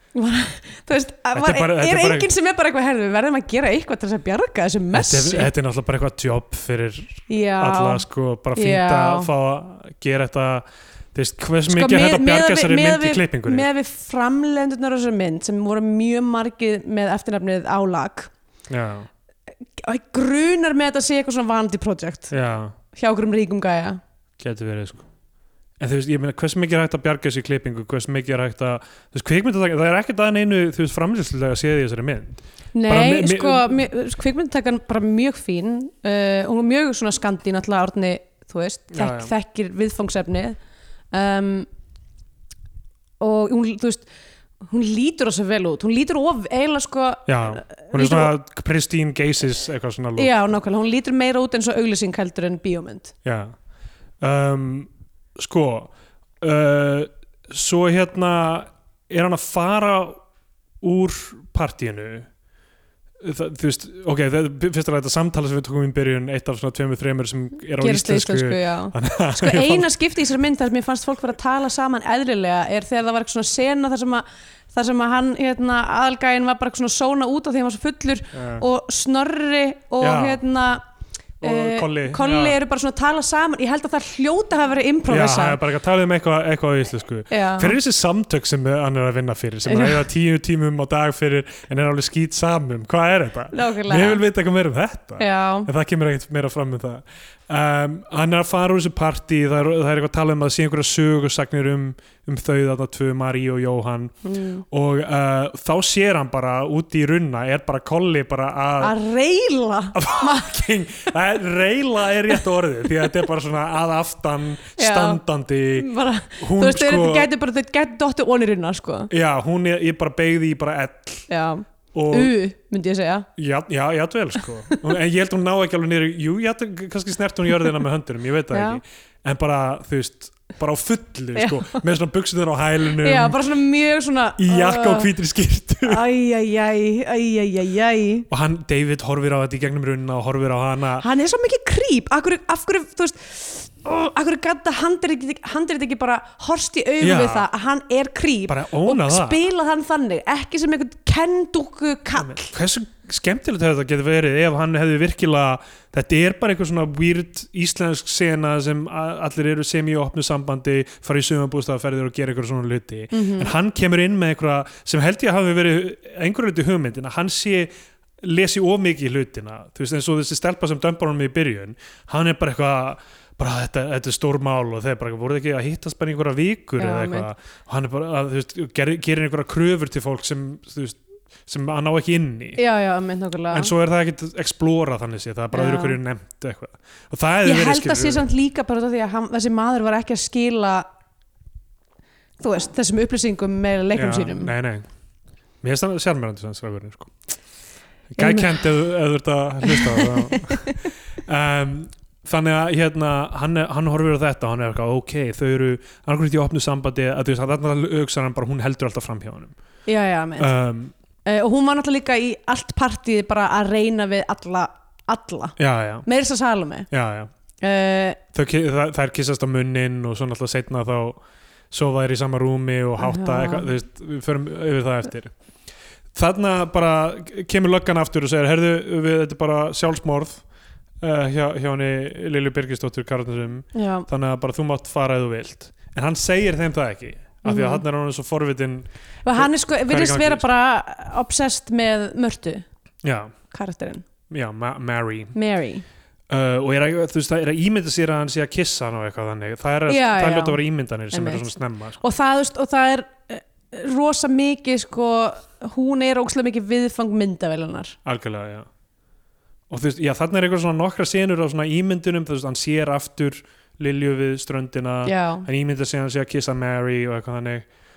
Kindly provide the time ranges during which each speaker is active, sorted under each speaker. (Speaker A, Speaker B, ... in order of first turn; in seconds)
Speaker A: 0.1-5.5, 7.3-8.0, 8.6-9.3, 11.7-18.3, 19.7-22.3, 22.9-24.0, 32.7-40.6, 41.1-41.7, 43.2-44.1, 44.6-48.3, 50.2-53.1, 67.8-80.8, 81.4-85.6, 87.3-87.8, 89.7-90.0, 93.5-94.2, 95.2-95.7, 104.2-104.6, 108.8-110.5, 114.8-119.1, 121.3-123.3, 128.5-128.8, 131.3-131.8, 133.0-135.1, 135.8-138.3, 141.0-152.5, 163.1-163.5, 176.8-177.3, 182.6-183.7, 185.5-186.0, 187.4-190.8, 192.4-194.5, 198.2-198.7, 199.6-200.8, 209.8-210.5, 211.2-216.9, 217.6-218.2, 223.0-223.7, 233.7-234.1, 237.4-237.8, 239.2-242.6, 243.5-244.1, 245.3-245.8, 249.9-250.6, 251.1-257.9, 265.0-265.5
Speaker B: 1.3-2.3, 4.9-13.7, 18.7-19.1, 22.3-22.8, 24.4-25.1, 25.8-33.7, 38.9-39.3, 47.3-50.4, 53.2-53.5, 54.2-60.2, 60.8-62.3, 63.2-69.9, 78.3-78.6, 80.0-80.4, 81.4-82.6, 85.1-104.1, 104.7-108.9, 109.9-117.3, 119.1-121.3, 121.9-122.3, 123.4-133.4, 134.4-136.0, 138.3-141.1, 147.0-147.5, 148.5-149.4, 152.2-182.6, 183.5-188.3, 193.9-194.8, 195.6-197.2, 198.1-209.5, 210.4-210.9, 215.6-216.1, 216.9-217.3, 218.3-225.3, 226.1-230.4, 231.0-240.4, 243.0-243.3, 244.3-245.3, 246.3-252.0, 258.0-258.7, 259.7-267.6